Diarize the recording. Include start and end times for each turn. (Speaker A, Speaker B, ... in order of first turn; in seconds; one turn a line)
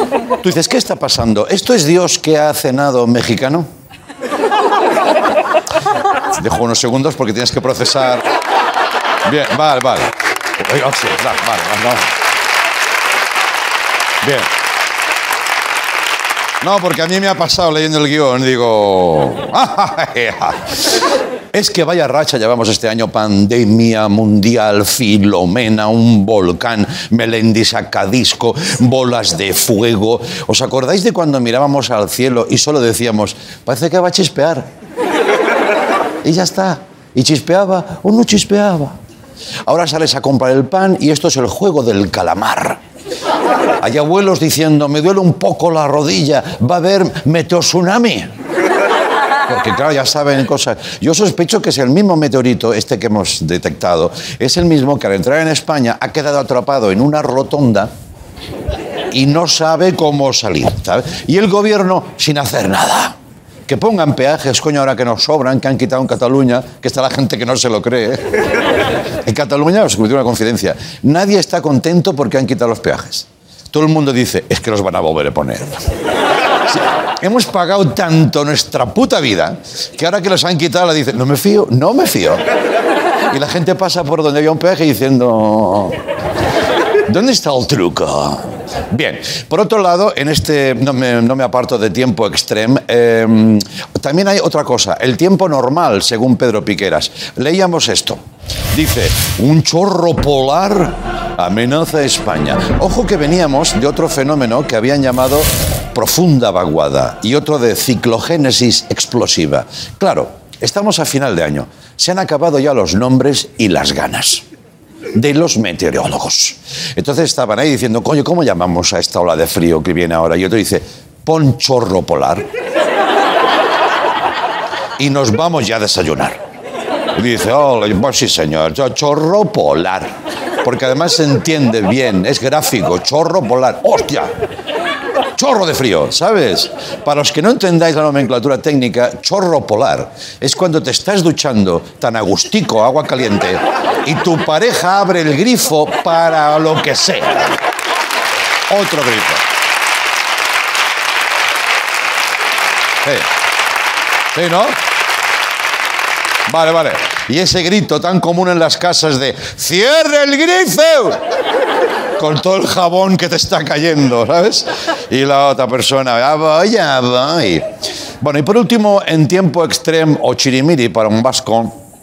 Speaker A: 0.4-3.7
Speaker A: 6.3-8.2
Speaker A: 9.2-12.1
Speaker A: 14.2-14.5
Speaker A: 16.6-34.7
Speaker A: 36.2-39.0
Speaker A: 39.7-42.8
Speaker A: 43.8-48.3
Speaker A: 49.5-57.9
Speaker A: 59.1-63.2
Speaker A: 63.7-68.4
Speaker A: 69.2-75.9
Speaker A: 76.7-82.4
Speaker A: 83.3-86.0
Speaker A: 87.1-98.2
Speaker A: 98.7-114.4
Speaker A: 115.1-122.5
Speaker A: 125.0-126.4
Speaker A: 127.2-134.3
Speaker A: 135.4-147.6
Speaker A: 148.7-149.4
Speaker A: 154.3-154.8
Speaker A: 156.5-161.2
Speaker A: 162.2-167.7
Speaker A: 168.2-171.8